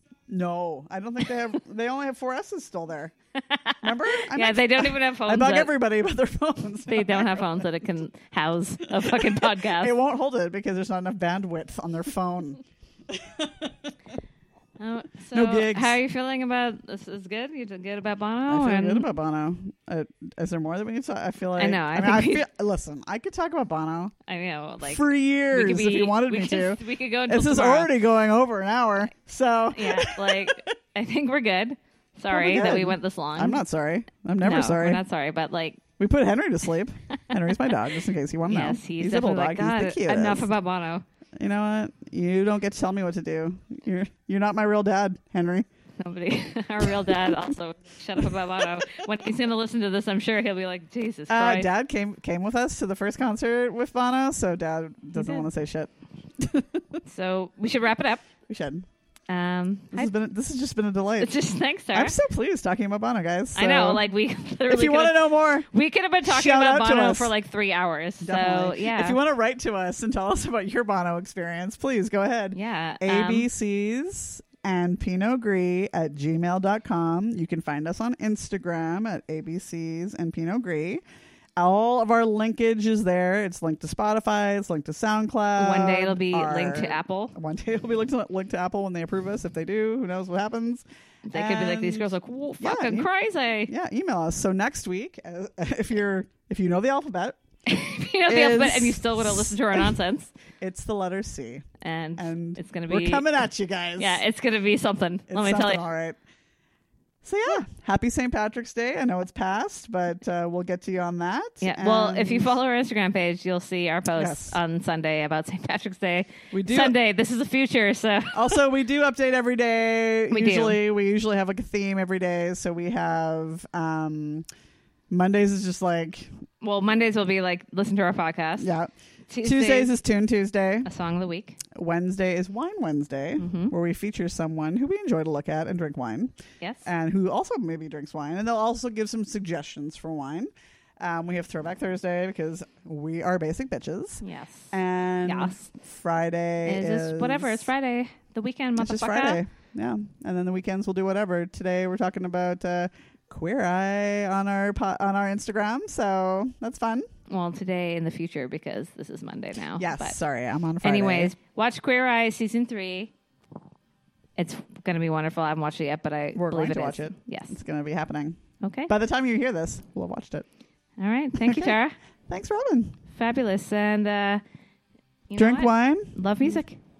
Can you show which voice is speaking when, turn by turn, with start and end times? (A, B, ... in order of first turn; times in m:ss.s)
0:00.3-0:03.1 A
0:03.4-0:05.8 B
0:03.8-0:07.8 A
0:06.9-0:09.9 B
0:08.8-0:13.9 A
0:14.8-0:19.1 B
0:15.3-0:16.0 A
0:18.5-0:24.1 A
0:21.6-0:22.4 B
0:24.3-0:27.9 B
0:24.8-0:30.7 A
0:29.7-0:33.6 B
0:32.3-0:35.0 A
0:34.4-0:35.8 B
0:36.0-0:40.5 A
0:37.3-0:37.7 B
0:38.5-0:41.0 B
0:41.4-0:45.6 A
0:46.0-0:51.7 B
0:46.8-0:47.5 A
0:48.2-0:49.1 A
0:51.3-0:57.0 A
0:55.2-0:55.4 B
0:57.0-0:58.2 B
0:58.5-0:58.8 A
0:59.3-1:00.1 B
0:59.9-1:01.3 A
1:01.2-1:02.2 B
1:01.9-1:04.0 A
1:03.5-1:09.2 B
1:04.7-1:05.7 A
1:06.2-1:07.3 A
1:08.2-1:21.0 A
1:12.5-1:13.5 B
1:21.6-1:32.1 A
1:25.6-1:27.3 B
1:31.3-1:33.7 B
1:32.6-1:33.1 A
1:33.7-1:37.4 A
1:37.6-1:40.3 B
1:38.2-1:40.0 A
1:40.6-1:41.7 A
1:41.8-1:43.2 B
1:42.2-1:44.2 A
1:44.0-1:45.8 B
1:45.3-1:46.2 A
1:47.2-1:52.6 A
1:51.6-1:58.6 B
1:54.1-1:54.6 A
1:56.5-1:57.0 A
1:58.3-2:04.4 A
2:00.3-2:00.8 B
2:05.1-2:06.3 A
2:06.6-2:08.7 B
2:08.6-2:08.9 A
2:09.3-2:09.9 B
2:09.4-2:10.9 A
2:10.8-2:11.6 B
2:11.7-2:16.3 A
2:13.4-2:13.7 B
2:16.8-2:27.7 A
2:24.2-2:24.7 B
2:25.2-2:25.7 B
2:26.6-2:29.4 B
2:28.8-2:37.0 A
2:37.3-2:40.2 B
2:39.8-2:41.3 A
2:40.8-2:43.1 B
2:44.4-2:47.6 B
2:46.3-2:50.4 A
2:48.6-2:48.9 B
2:51.0-2:52.0 B
2:51.4-2:53.0 A
2:53.1-2:54.4 B
2:55.3-2:56.8 B
2:55.4-2:56.6 A